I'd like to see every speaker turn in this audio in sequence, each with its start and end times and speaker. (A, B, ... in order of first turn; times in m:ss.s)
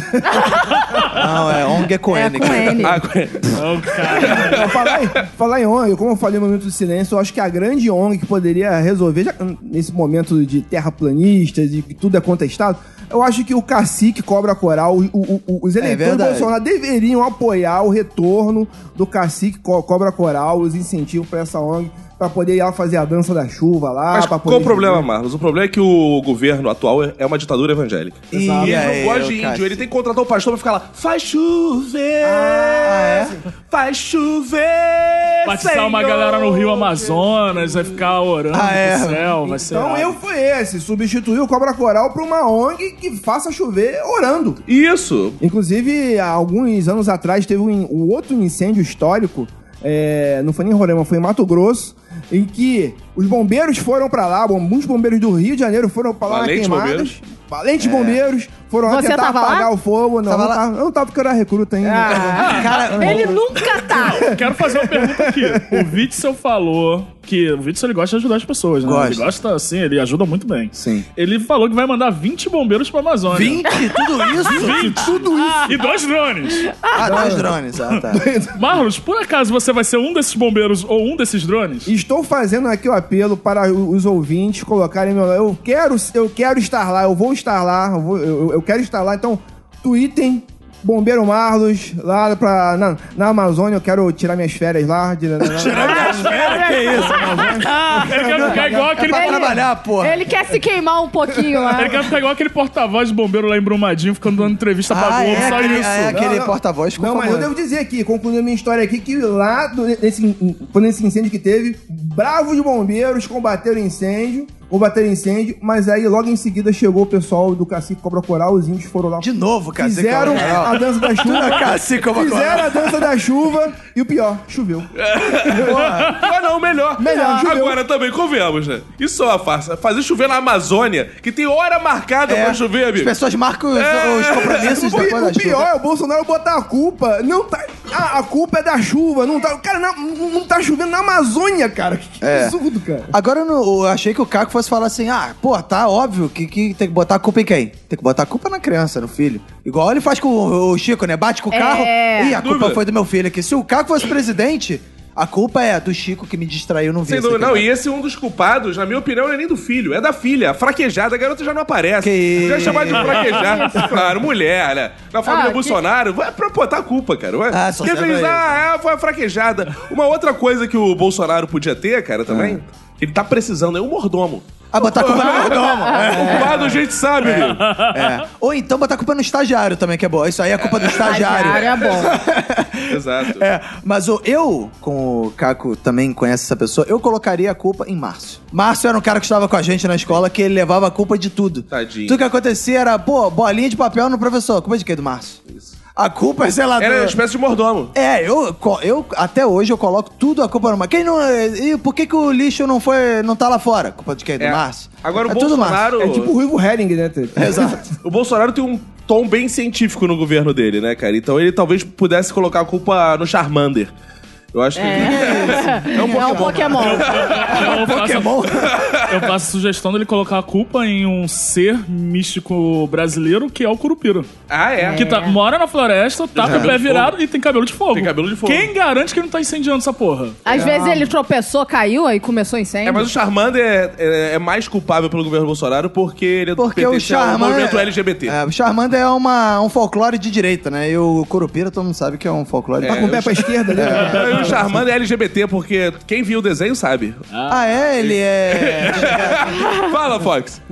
0:00.3-0:00.8 A
0:01.1-0:03.0 B
0:02.1-0:03.0 A
0:02.8-0:05.1 C
0:03.5-0:04.6 D
0:04.1-0:25.1 E
0:15.8-0:16.5 B
0:24.1-0:37.3 C
0:28.3-0:28.9 D
0:28.3-0:29.8 B
0:32.2-0:33.4 E
0:32.8-0:33.4 B
0:35.5-0:40.2 D
0:38.5-0:39.3 B
0:39.4-0:44.6 E
0:44.7-0:45.4 C
0:45.4-1:05.9 E
0:56.3-0:57.2 C
0:57.8-0:58.2 B
0:58.9-0:59.7 A
1:00.2-1:00.6 B
1:01.8-1:04.4 A
1:02.1-1:03.4 B
1:02.4-1:02.7 D
1:04.0-1:13.7 D
1:08.8-1:09.3 B
1:10.7-1:11.1 B
1:13.3-1:15.6 B
1:13.7-1:14.5 A
1:14.4-1:16.7 D
1:14.8-1:15.8 E
1:16.7-1:17.0 A
1:16.9-1:18.2 B
1:17.0-1:17.5 E
1:18.1-1:18.7 E
1:18.5-1:21.9 D
1:21.9-1:38.8 E
1:35.4-1:40.2 B
1:35.7-1:37.6 A
1:37.6-1:39.6 D
1:39.1-1:42.0 A
1:41.7-1:46.3 D
1:44.9-1:47.5 B
1:45.3-1:59.3 E
1:59.2-2:03.0 B
1:59.8-2:04.9 E
2:05.0-2:13.1 C
2:05.5-2:05.8 E
2:05.6-2:06.2 B
2:07.0-2:07.8 E
2:12.3-2:15.7 B
2:13.8-2:14.9 C
2:14.7-2:23.1 E
2:22.2-2:22.6 B
2:23.1-2:37.7 B
2:31.5-2:32.4 A
2:32.4-2:32.8 C
2:37.0-2:57.6 C
2:42.0-2:43.3 B
2:43.3-2:43.9 A
2:45.2-2:45.8 A
2:47.5-2:48.5 B
2:52.3-2:52.6 B
2:54.7-3:15.4 B
2:55.2-2:56.6 A
2:57.6-2:58.0 D
3:00.6-3:01.4 C
3:00.9-3:02.2 A
3:02.9-3:03.5 C
3:11.7-3:12.2 C
3:16.0-3:17.2 B
3:16.8-3:18.0 C
3:17.9-3:25.9 B
3:24.4-3:26.3 C
3:26.0-3:27.9 E
3:27.4-3:27.8 B
3:28.0-3:33.9 C
3:34.5-3:37.7 C
3:34.8-3:37.4 A
3:34.9-3:38.8 B
3:36.8-3:38.5 D
3:38.6-3:39.3 C
3:39.0-3:44.3 D
3:44.5-3:45.0 C
3:44.9-3:45.4 A
3:44.9-3:50.4 D
3:46.4-3:47.1 C
3:46.4-3:46.8 B
3:47.9-3:48.7 C
3:50.4-3:53.1 A
3:50.5-3:51.1 B
3:52.8-3:58.4 C
3:56.6-4:04.5 B
4:02.8-4:07.2 C
4:02.8-4:04.8 E
4:07.3-4:07.6 D
4:07.5-4:09.6 B
4:08.0-4:10.6 C
4:09.6-4:09.9 A